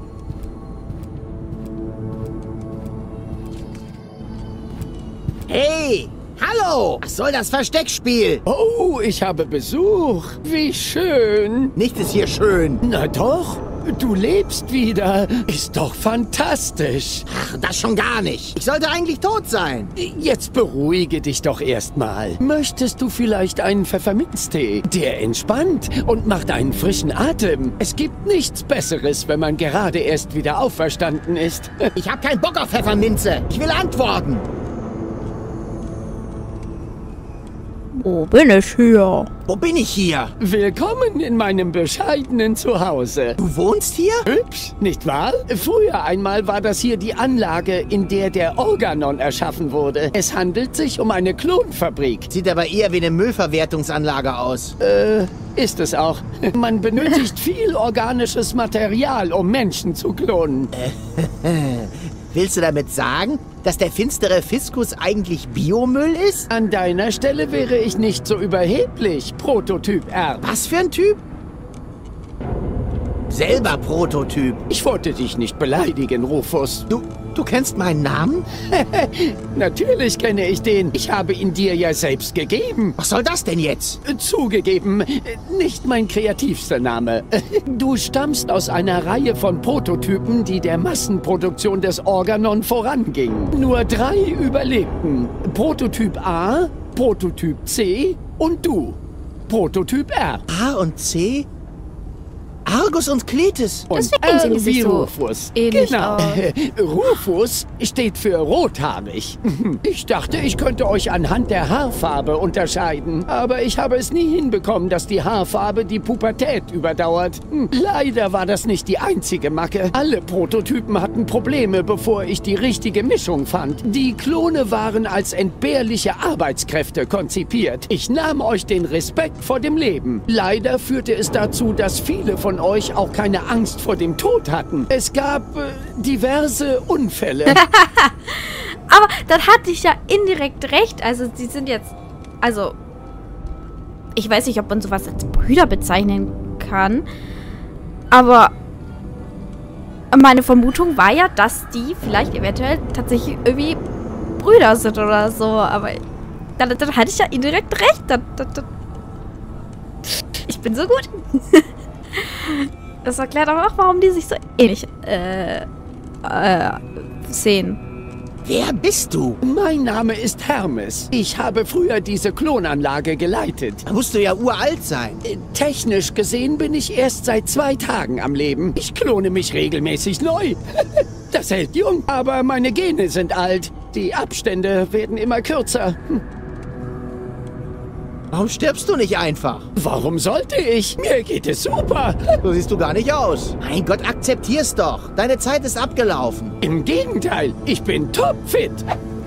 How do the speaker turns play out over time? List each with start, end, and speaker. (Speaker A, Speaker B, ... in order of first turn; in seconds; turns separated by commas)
Speaker A: 5.5-8.4, Speaker B: 8.5-11.7, Speaker A: 11.8-12.8, Speaker B: 12.8-17.3, Speaker A: 17.3-19.9, Speaker B: 20.0-31.9, Speaker A: 32.0-34.5, Speaker C: 37.9-39.3, Speaker A: 39.5-40.3, Speaker B: 40.4-43.4, Speaker A: 43.4-44.3, Speaker B: 44.3-52.3, Speaker A: 52.3-54.8, Speaker B: 54.8-60.7, Speaker A: 60.7-66.5, Speaker B: 66.5-70.5, Speaker A: 70.4-71.2, Speaker A: 73.3-74.6, Speaker B: 74.7-76.9, Speaker A: 76.9-78.5, Speaker B: 78.6-83.0, Speaker A: 83.0-84.0, Speaker B: 84.0-100.5, Speaker A: 100.5-101.5, Speaker A: 102.7-103.9, Speaker B: 103.9-137.6, Speaker C: 103.9-106.5, Speaker C: 137.5-142.8, Speaker C: 144.2-147.1, Speaker C: 148.1-148.5, Speaker C: 150.1-153.8, Speaker C: 154.4-156.0, Speaker C: 156.6-158.7, Speaker C: 160.1-165.7, Speaker C: 166.2-167.8, Speaker A: 168.4-169.4, Speaker B: 169.4-173.8, Speaker A: 173.9-175.2, Speaker B: 175.2-186.2, Speaker A: 188.3-189.7, Speaker B: 189.8-192.4, Speaker A: 192.4-196.6, Speaker B: 196.6-198.8